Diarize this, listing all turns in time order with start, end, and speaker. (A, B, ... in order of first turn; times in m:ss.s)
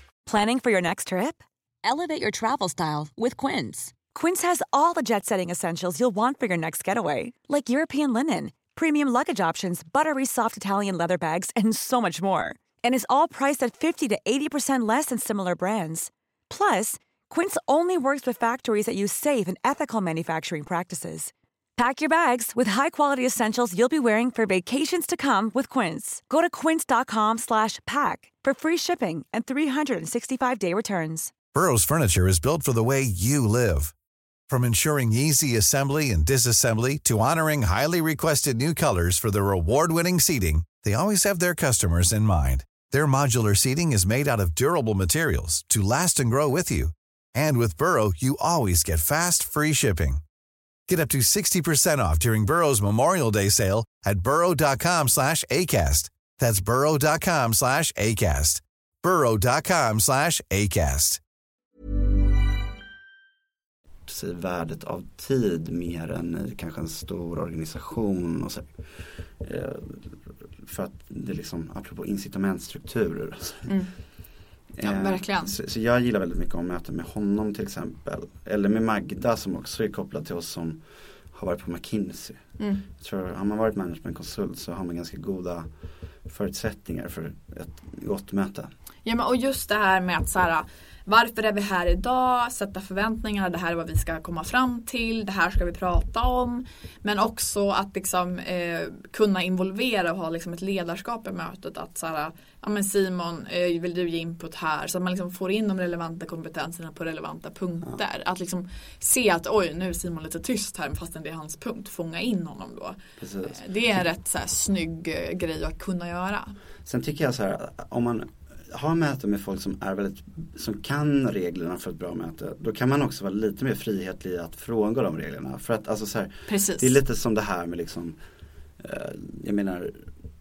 0:00.2-0:31.4 A
0:31.5-0:33.9 B
0:34.5-0:50.2 B
0:50.9-1:01.2 B
1:04.1-1:13.7 C
1:13.6-1:13.9 D
1:14.8-1:22.4 C
1:14.8-1:15.5 D
1:22.6-1:22.8 D
1:22.9-1:25.7 C
1:26.2-1:28.7 C
1:29.0-1:56.5 D
1:53.2-1:54.0 C
1:56.8-2:08.2 C
2:06.5-2:07.0 D
2:08.8-2:10.0 C